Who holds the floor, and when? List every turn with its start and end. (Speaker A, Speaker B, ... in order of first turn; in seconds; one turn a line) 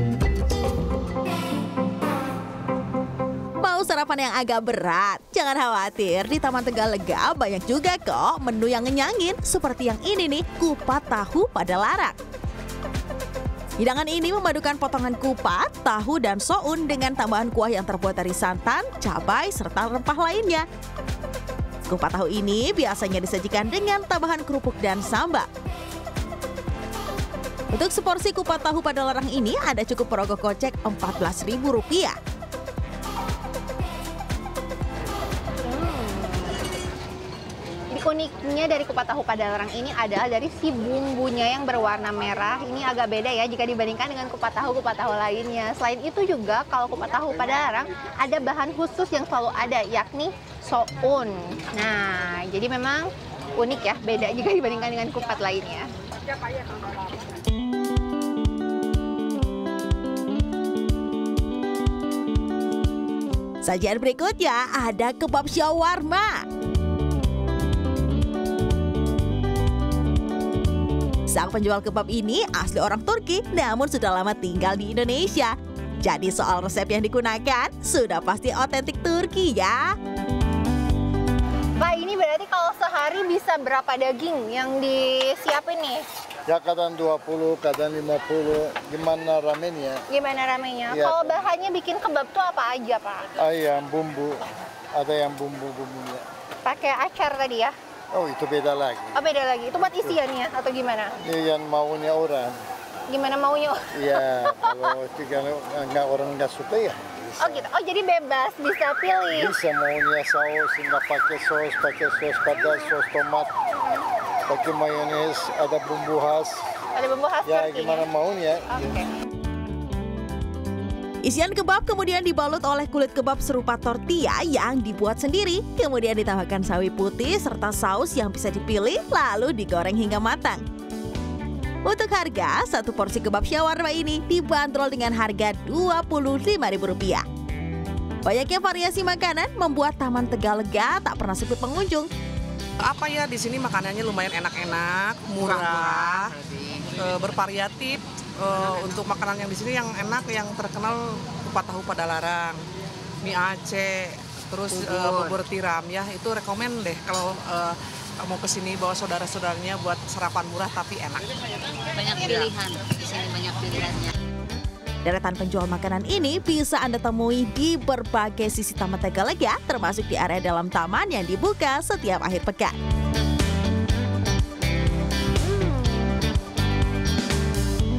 Speaker A: 3.6-12.2
Speaker A: 13.8-20.7
Speaker A: 21.9-25.5
Speaker A: 27.7-32.2
Speaker B: 35.6-36.6
Speaker B: 37.9-55.9
Speaker A: 63.6-66.5
Speaker A: 71.3-79.8
Speaker B: 81.8-86.0
Speaker C: 86.5-90.0
Speaker B: 90.1-93.3
Speaker C: 90.9-91.4
Speaker C: 93.4-96.2
Speaker B: 96.6-97.7
Speaker C: 98.1-99.2
Speaker B: 99.1-101.2
Speaker C: 101.2-102.6
Speaker B: 103.1-105.0
Speaker C: 103.9-107.7
Speaker B: 107.4-109.5
Speaker C: 109.3-113.5
Speaker B: 112.6-112.9
Speaker C: 114.5-116.7
Speaker B: 117.0-118.1
Speaker C: 117.4-118.9
Speaker B: 118.7-119.1
Speaker A: 121.2-130.6
Speaker A: 131.9-137.2
Speaker A: 138.2-142.1
Speaker D: 142.8-152.6
Speaker E: 145.4-146.9
Speaker D: 153.2-161.3
Speaker E: 154.7-155.4
Speaker E: 161.9-164.1
Speaker A: 165.1-172.7
Speaker B: 175.4-176.1